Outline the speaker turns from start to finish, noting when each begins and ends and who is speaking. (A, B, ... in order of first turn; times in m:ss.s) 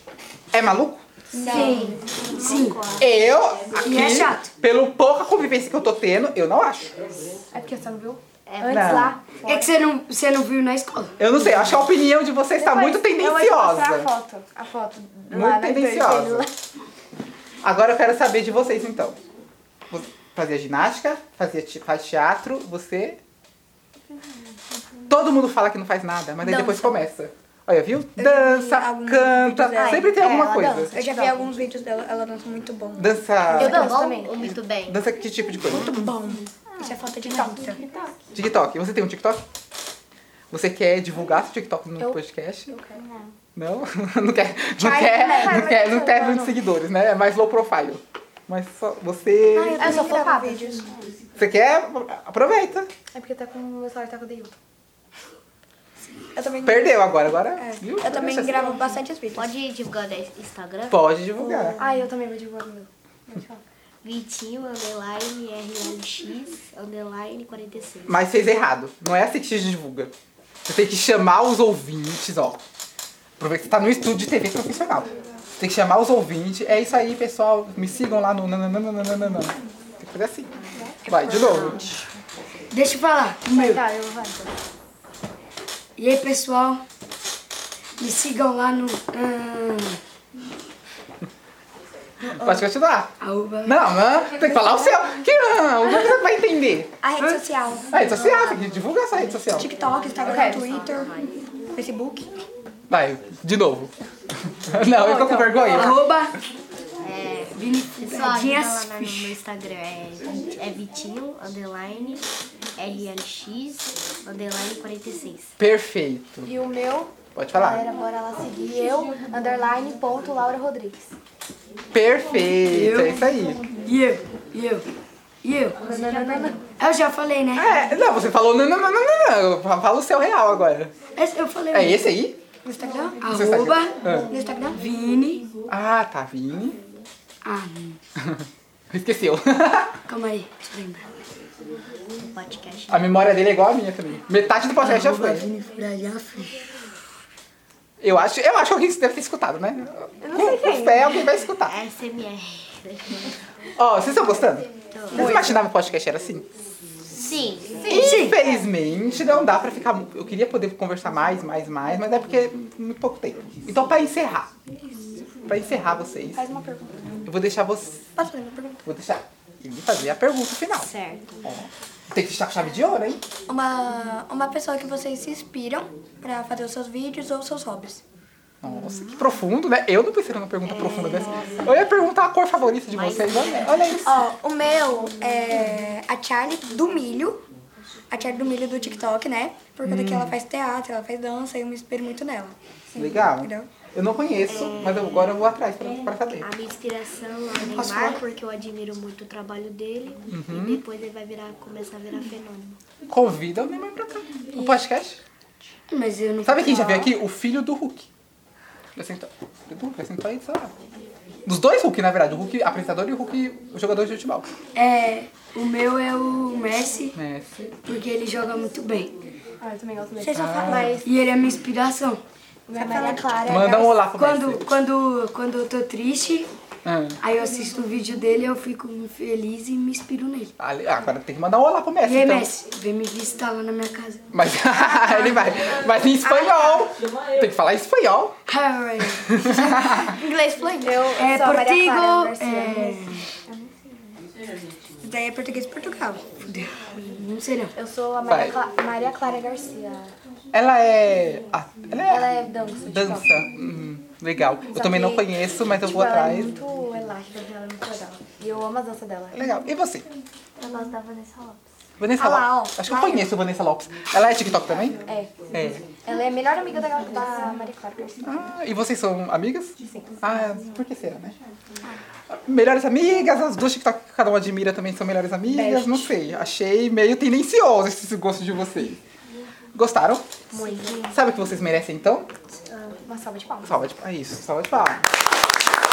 0:00.5-0:01.0 A
0:01.3-0:02.0 B
0:01.3-0:02.4 C
0:01.4-0:03.2 D
0:01.6-0:02.8 E
0:03.0-0:06.9 A
0:03.8-0:04.5 E
0:07.5-0:09.7 C
0:08.5-0:09.0 D
0:08.6-0:09.2 A
0:09.4-0:11.1 E
0:11.2-0:14.1 A
0:12.6-0:16.5 C
0:15.3-0:16.5 A
0:17.6-0:19.2 A
0:19.9-0:23.2 A
0:25.1-0:30.9 A
0:26.4-0:27.0 C
0:28.2-0:30.4 B
0:29.8-0:31.5 C
0:30.9-0:33.9 B
0:33.0-0:34.0 A
0:33.6-0:34.6 C
0:33.6-0:35.0 D
0:34.9-0:36.0 A
0:35.6-0:37.8 B
0:36.7-0:38.1 C
0:38.3-0:39.4 A
0:40.5-0:42.7 A
0:42.7-0:43.3 C
0:43.5-0:49.9 A
0:44.8-0:46.6 C
0:49.5-0:50.9 B
0:49.8-0:50.9 C
0:51.4-0:52.9 A
0:53.1-0:54.5 C
0:56.3-0:59.5 B
0:56.6-0:59.0 A
0:59.3-1:01.1 D
1:00.9-1:01.8 A
1:01.8-1:03.6 C
1:04.0-1:08.2 D
1:08.0-1:10.1 A
1:10.6-1:12.6 A
1:13.4-1:20.5 A
1:20.7-1:22.0 C
1:21.0-1:21.8 A
1:21.2-1:22.1 D
1:22.7-1:23.8 E
1:23.5-1:24.5 C
1:26.0-1:26.8 E
1:28.0-1:30.0 E
1:32.2-1:33.1 A
1:33.2-1:33.9 E
1:33.6-1:36.9 A
1:34.4-1:35.0 B
1:37.0-1:38.8 B
1:37.2-1:37.4 E
1:37.9-1:39.7 A
1:39.4-1:41.2 B
1:40.1-1:41.4 D
1:40.2-1:40.6 C
1:41.7-1:42.3 B
1:42.9-1:43.9 A
1:44.4-1:46.0 A
1:45.0-1:45.8 B
1:45.6-1:46.4 E
1:47.0-1:55.5 D
1:47.5-1:49.4 E
1:55.6-1:56.5 A
1:56.4-2:01.1 C
1:57.3-1:57.8 A
2:01.9-2:03.6 A
2:02.7-2:03.2 E
2:03.8-2:04.8 E
2:05.4-2:05.8 E
2:05.8-2:06.6 C
2:06.1-2:06.5 B
2:06.8-2:07.8 E
2:07.5-2:10.9 A
2:11.2-2:12.1 E
2:11.7-2:12.4 A
2:12.6-2:13.5 B
2:13.2-2:14.0 E
2:13.3-2:14.3 A
2:14.1-2:14.8 B
2:14.8-2:15.4 E
2:15.7-2:16.8 A
2:17.4-2:18.0 E
2:18.2-2:20.0 A
2:20.1-2:21.1 E
2:22.2-2:23.2 D
2:22.9-2:25.5 A
2:24.8-2:26.7 E
2:28.0-2:31.8 A
2:30.2-2:31.1 C
2:31.6-2:33.4 D
2:33.8-2:36.4 A
2:34.9-2:35.3 D
2:35.1-2:35.6 C
2:37.1-2:38.1 D
2:37.9-2:44.5 A
2:37.9-2:38.4 E
2:45.5-2:46.4 A
2:46.4-2:47.2 B
2:47.2-2:48.0 A
2:48.2-2:48.8 B
2:48.8-2:50.9 A
2:50.7-2:51.4 D
2:51.4-2:53.2 A
2:53.5-2:58.0 B
2:58.6-3:04.2 A
3:00.6-3:01.8 D
3:02.9-3:04.0 D
3:04.0-3:07.4 B
3:08.1-3:12.6 B
3:09.8-3:10.3 A
3:12.9-3:16.5 A
3:13.2-3:13.7 B
3:14.4-3:15.4 D
3:16.3-3:22.8 D
3:17.7-3:18.3 B
3:20.3-3:20.8 A
3:23.1-3:25.2 A
3:25.9-3:27.1 E
3:26.4-3:28.1 A
3:29.0-3:30.7 A
3:31.4-3:34.5 A
3:34.7-3:37.2 E
3:37.2-3:37.8 A
3:37.8-3:39.1 E
3:39.6-3:41.1 C
3:40.2-3:41.0 B
3:40.4-3:41.0 A
3:41.0-3:42.2 E
3:42.7-3:44.0 C
3:42.7-3:43.8 B
3:43.4-3:44.6 A
3:44.1-3:46.5 E
3:46.8-3:47.2 A
3:47.2-3:50.5 E
3:50.6-3:52.5 A
3:52.0-3:54.2 E
3:54.3-3:58.4 A
3:55.0-3:55.3 B
3:56.2-3:56.8 B
3:58.5-3:59.8 E
3:59.2-4:00.1 A
4:00.0-4:01.1 D
4:00.8-4:03.7 C
4:01.2-4:03.3 E
4:05.0-4:06.4 B
4:06.4-4:07.7 E
4:07.7-4:10.1 C
4:08.3-4:08.6 A
4:10.5-4:12.3 A
4:12.1-4:13.3 C
4:12.8-4:16.6 A
4:14.7-4:15.3 C
4:15.8-4:19.4 C
4:19.3-4:20.1 A
4:20.6-4:21.6 C
4:22.0-4:25.0 A
4:22.1-4:23.3 B
4:25.0-4:28.5 C
4:25.5-4:25.8 A
4:28.2-4:31.4 A
4:32.4-4:39.0 A
4:35.5-4:36.1 C
4:39.7-4:40.3 A
4:40.5-4:41.1 C
4:40.5-4:41.2 D
4:41.1-4:42.3 A
4:42.7-4:43.9 C
4:43.6-4:45.0 A